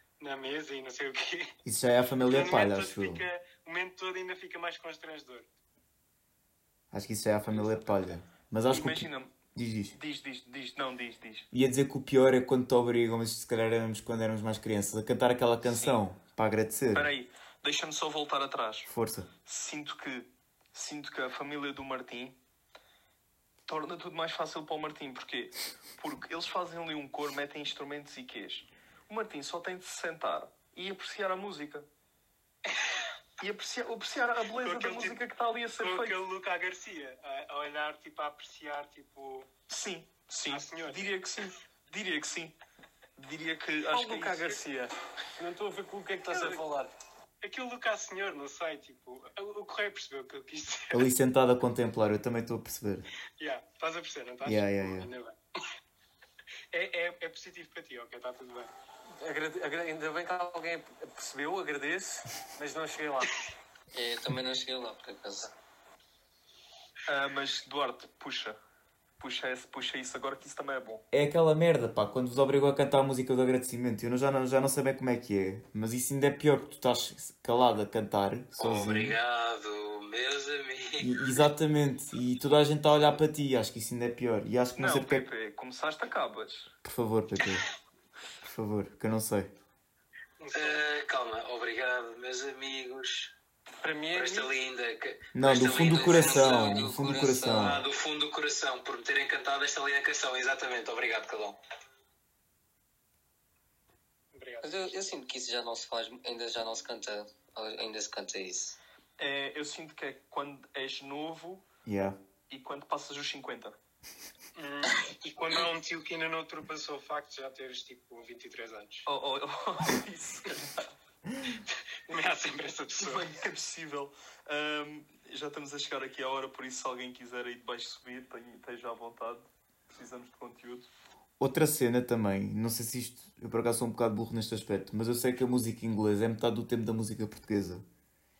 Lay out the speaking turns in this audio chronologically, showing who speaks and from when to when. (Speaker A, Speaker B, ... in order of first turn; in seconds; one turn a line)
Speaker A: 0.2-1.5
Speaker B: 1.6-3.2
Speaker A: 2.2-5.5
Speaker B: 6.9-10.0
Speaker A: 7.5-7.8
Speaker C: 8.7-9.3
Speaker C: 9.9-11.5
Speaker B: 11.5-17.1
Speaker C: 15.6-16.0
Speaker C: 16.9-18.9
Speaker B: 18.9-19.3
Speaker C: 19.4-22.4
Speaker C: 23.7-31.9
Speaker C: 33.4-36.2
Speaker A: 34.5-35.2
Speaker A: 35.8-39.5
Speaker C: 39.7-42.5
Speaker A: 40.5-41.1
Speaker C: 43.2-44.6
Speaker D: 43.9-46.9
Speaker A: 46.3-46.6
Speaker A: 47.4-51.1
Speaker B: 50.9-53.1
Speaker A: 53.4-55.4
Speaker B: 54.4-55.1
Speaker A: 56.7-58.7
Speaker D: 59.2-63.3
Speaker E: 63.9-65.5
Speaker C: 67.1-68.6
Speaker C: 69.2-71.0
Speaker B: 71.1-79.2
Speaker F: 78.6-81.1
Speaker B: 81.0-85.3
Speaker C: 84.8-86.7
Speaker B: 86.8-87.7
Speaker B: 88.4-89.5
Speaker A: 90.4-90.8
Speaker F: 90.5-93.3
Speaker D: 93.8-94.5
Speaker F: 94.1-96.9
Speaker B: 95.3-97.8
Speaker E: 95.7-97.8
Speaker F: 97.5-101.6
Speaker A: 104.3-105.0
Speaker E: 104.6-108.8
Speaker C: 109.2-111.7
Speaker B: 111.8-112.2
Speaker C: 112.5-113.8
Speaker A: 114.5-119.1
Speaker C: 119.0-120.9
Speaker A: 122.1-123.3
Speaker C: 123.0-130.9
Speaker B: 131.4-137.8